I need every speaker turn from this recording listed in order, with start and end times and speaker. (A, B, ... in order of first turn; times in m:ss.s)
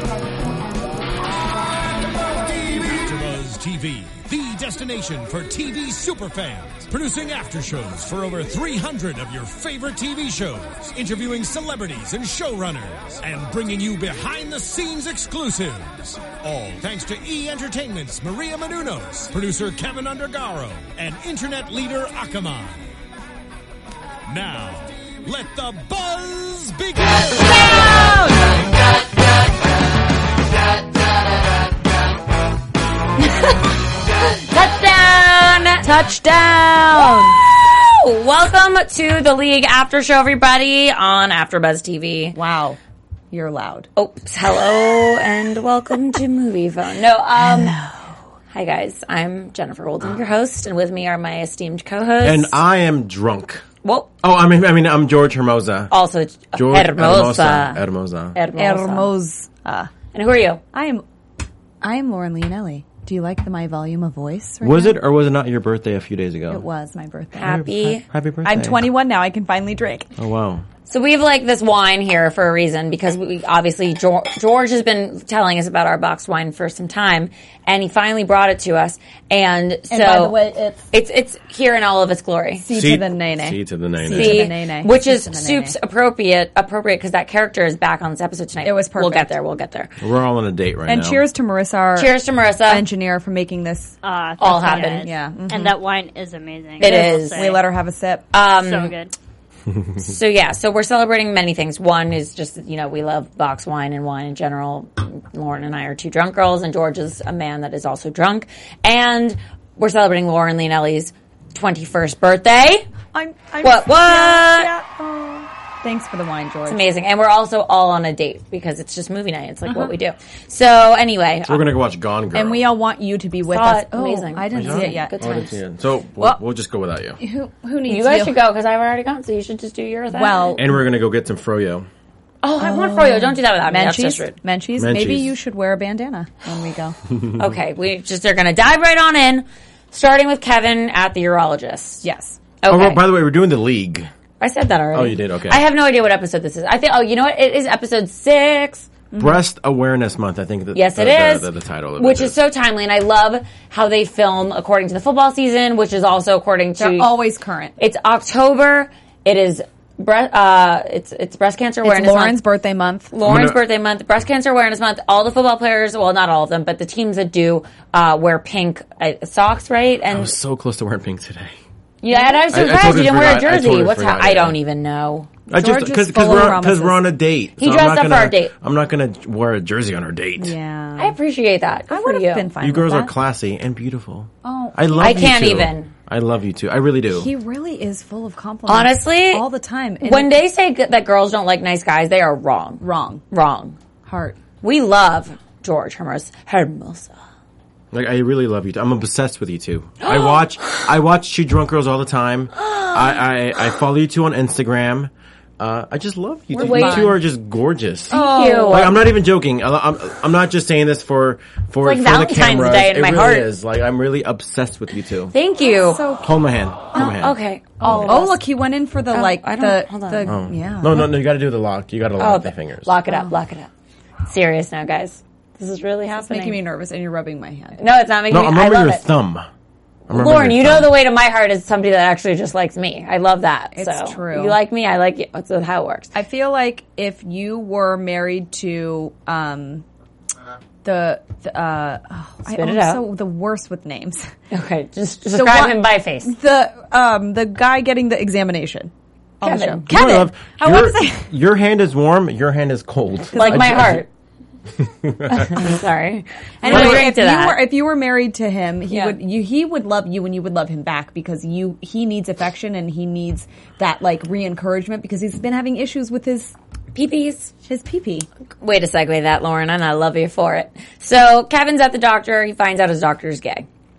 0:02.3-0:22.9 A
0:24.2-0:27.9 A
0:27.4-0:28.4 B
0:34.2-0:42.4 B
0:42.3-0:42.8 C
0:43.3-0:43.9 C
0:44.0-0:47.8 B
0:47.4-0:47.9 C
0:48.5-0:52.6 B
0:52.2-0:53.6 D
0:53.8-0:54.1 B
0:54.2-0:55.9 D
0:55.9-0:57.8 B
0:56.6-0:58.4 D
0:58.3-0:59.1 B
0:58.6-0:59.9 C
1:00.1-1:00.6 B
1:00.7-1:01.0 C
1:01.8-1:05.0 C
1:04.6-1:06.6 D
1:06.5-1:07.5 C
1:07.4-1:08.0 B
1:07.4-1:08.9 D
1:08.4-1:10.1 C
1:10.2-1:10.6 D
1:10.9-1:20.4 B
1:19.9-1:20.9 C
1:20.9-1:22.6 B
1:22.6-1:25.7 C
1:22.7-1:24.5 D
1:24.1-1:29.9 B
1:28.6-1:29.3 C
1:30.0-1:31.2 D
1:30.9-1:33.9 C
1:31.9-1:32.9 B
1:34.0-1:37.6 E
1:34.4-1:35.1 B
1:35.0-1:35.8 C
1:36.8-1:37.6 B
1:36.8-1:38.3 C
1:38.3-1:38.9 B
1:38.5-1:39.1 E
1:40.0-1:52.9 B
1:53.1-1:56.8 C
1:53.6-1:54.7 B
1:56.6-2:01.7 B
1:59.6-1:59.9 C
2:01.4-2:02.7 D
2:02.3-2:05.2 C
2:03.5-2:05.6 B
2:04.5-2:07.2 D
2:07.2-2:08.4 C
2:07.8-2:10.6 B
2:10.1-2:10.8 C
2:10.6-2:11.9 D
2:12.4-2:14.4 B
2:12.6-2:16.9 C
2:14.8-2:15.3 D
2:17.3-2:22.0 B
2:22.0-2:22.4 C
2:22.6-2:23.0 B
2:22.7-2:24.1 D
2:24.4-2:28.9 B
2:24.9-2:25.6 D
2:29.1-2:29.4 C
2:29.2-2:32.3 D
2:30.7-2:37.2 B
2:36.8-2:37.7 C
2:37.8-2:42.4 B
2:41.8-2:43.1 C
2:43.1-2:50.3 B
2:43.2-2:43.6 D
2:50.1-2:51.6 D
2:52.0-2:55.3 B
2:52.1-2:52.6 C
2:52.5-2:54.6 D
2:55.5-3:00.5 D
2:55.5-2:57.1 C
2:57.6-2:58.5 B
3:00.4-3:01.2 C
3:01.0-3:02.5 B
3:01.9-3:03.1 C
3:02.6-3:07.3 D
3:04.4-3:05.4 C
3:05.0-3:05.9 B
3:07.1-3:10.3 C
3:08.7-3:09.4 B
3:10.0-3:13.8 B
3:12.8-3:13.2 C
3:14.0-3:14.4 C
3:14.6-3:17.2 B
3:17.9-3:35.3 D
3:20.0-3:20.8 B
3:22.5-3:23.2 B
3:26.5-3:27.2 B
3:26.6-3:27.1 C
3:28.1-3:29.0 C
3:28.1-3:29.1 B
3:31.8-3:33.5 B
3:35.3-3:36.1 B
3:35.6-3:36.3 C
3:36.2-3:38.1 D
3:36.9-3:38.4 B
3:37.8-3:41.1 C
3:39.1-3:40.3 B
3:40.3-3:42.9 D
3:42.2-3:43.7 B
3:43.1-3:43.3 C
3:44.2-3:46.6 B
3:46.1-3:47.8 C
3:47.8-3:49.0 B
3:48.3-3:49.5 D
3:50.1-3:50.9 D
3:50.1-3:56.1 B
3:53.7-3:54.6 C
3:56.1-3:59.8 C
4:00.8-4:04.3 C
4:02.4-4:03.1 B
4:04.5-4:06.3 B
4:05.3-4:11.3 C
4:09.4-4:09.9 B
4:09.9-4:14.0 D
4:13.3-4:14.0 C
4:13.3-4:14.1 B
4:14.8-4:15.5 D
4:15.3-4:17.6 B
4:16.6-4:26.5 C
4:16.7-4:17.0 D
4:18.9-4:19.2 B
4:26.9-4:27.5 B
4:27.7-4:28.3 C
4:28.6-4:33.7 B